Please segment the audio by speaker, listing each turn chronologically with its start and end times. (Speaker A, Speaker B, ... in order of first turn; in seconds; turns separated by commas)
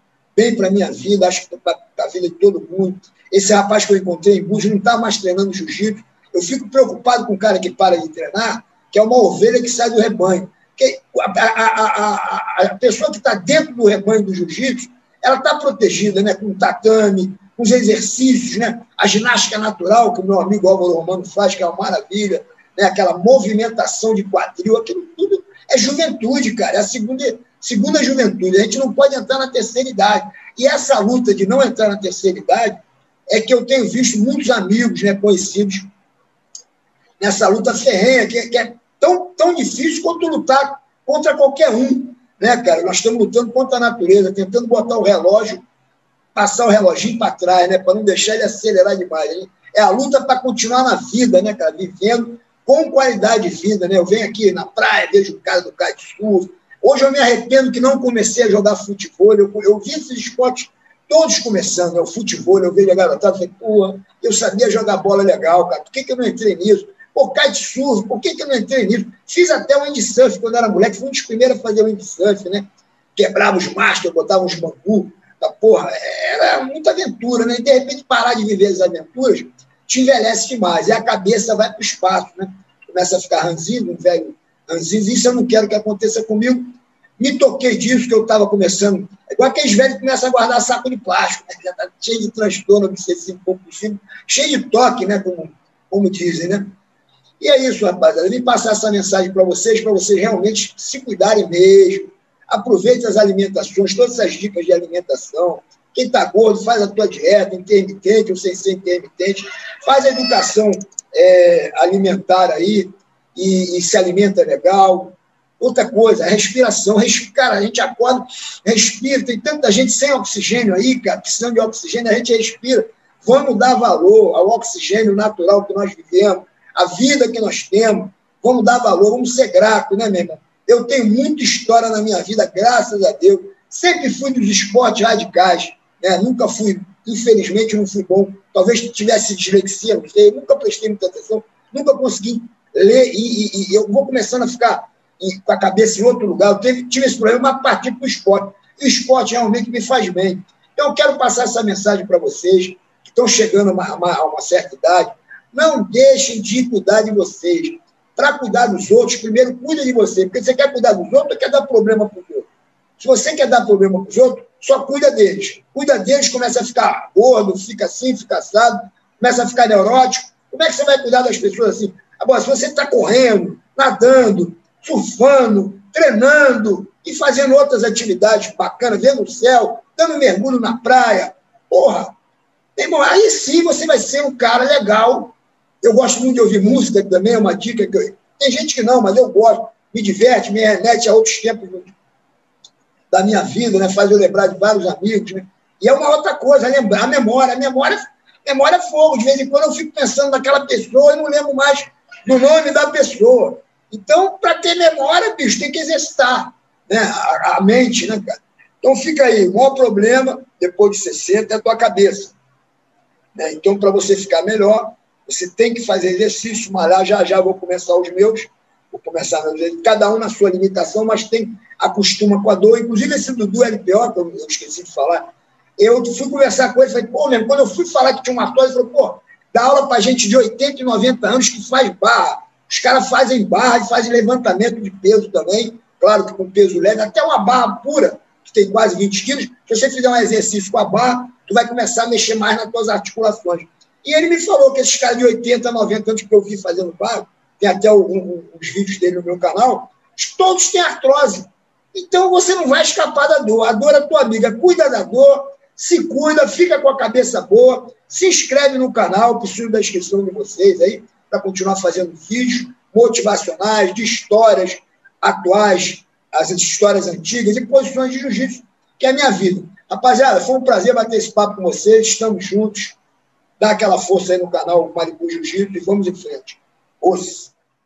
Speaker A: 0.3-35.9, Speaker A: 37.2-45.6, Speaker A: 46.4-86.7, Speaker A: 87.2-96.7, Speaker A: 97.4-182.2, Speaker A: 182.8-191.9, Speaker A: 193.1-212.3, Speaker A: 213.3-225.3, Speaker A: 225.8-273.0, Speaker A: 273.6-277.5